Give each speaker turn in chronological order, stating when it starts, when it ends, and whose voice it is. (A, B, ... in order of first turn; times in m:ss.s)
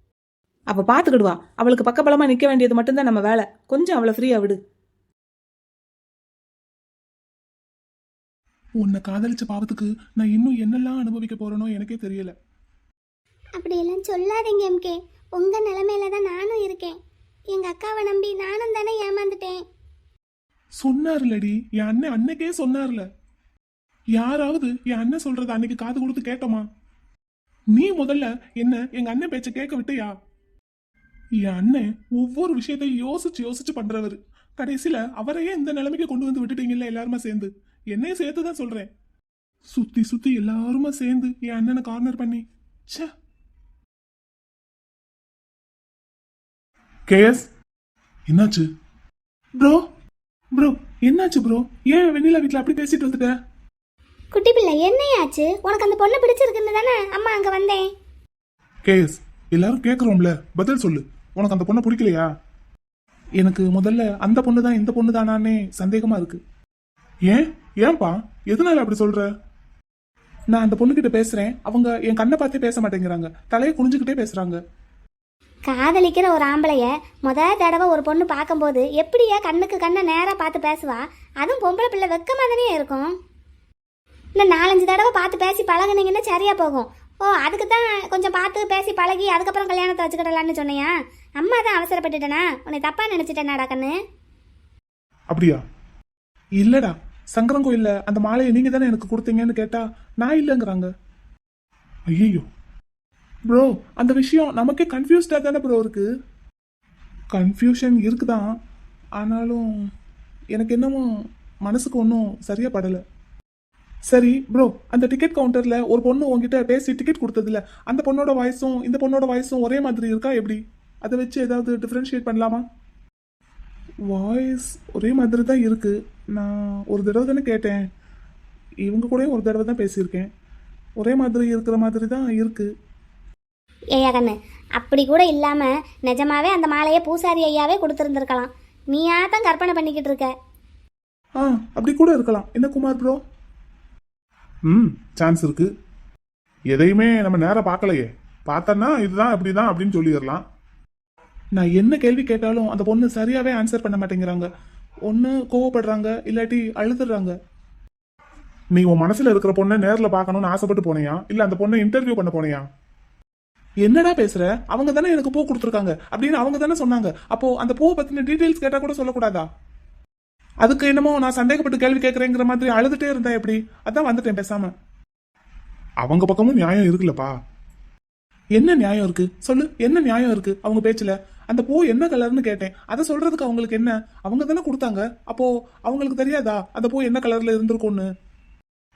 0:00.7-0:04.6 A
0:08.8-0:12.4 B
0:13.6-0:17.0 C
0:17.5-0:19.6 C
0:20.8-0:23.1 B
0:24.2-0:26.7 B
0:27.7-0:30.2 B
0:31.4-0:38.9 B
0:39.7-0:43.1 B
0:47.1-0:47.5 B
0:48.3-0:48.7 B
0:49.6-0:49.8 B
0:50.6-0:53.3 B
0:54.3-0:57.9 C
0:58.9-1:02.3 B
1:03.4-1:06.4 B
1:07.3-1:09.3 B
1:10.5-1:14.6 B
1:15.7-1:23.1 C
1:24.4-1:34.0 C
1:35.3-1:35.6 B
1:36.6-1:40.9 B
1:42.1-1:42.5 B
1:43.5-1:46.1 B
1:47.3-1:48.6 B
1:49.2-1:49.9 B
1:50.6-1:51.1 B
1:51.6-1:53.0 B
1:54.1-2:02.6 B
2:04.1-2:07.8 B
2:08.9-2:10.3 B
2:11.0-2:12.7 B
2:14.0-2:20.3 C
2:21.4-2:23.2 B
2:24.7-2:25.7 B
2:26.7-2:30.4 B
2:31.6-2:34.5 B
2:35.1-2:37.4 B
2:38.8-2:42.7 B
2:43.8-2:49.5 B
2:50.6-2:54.7 B
2:56.0-2:57.3 B
2:58.6-3:08.1 B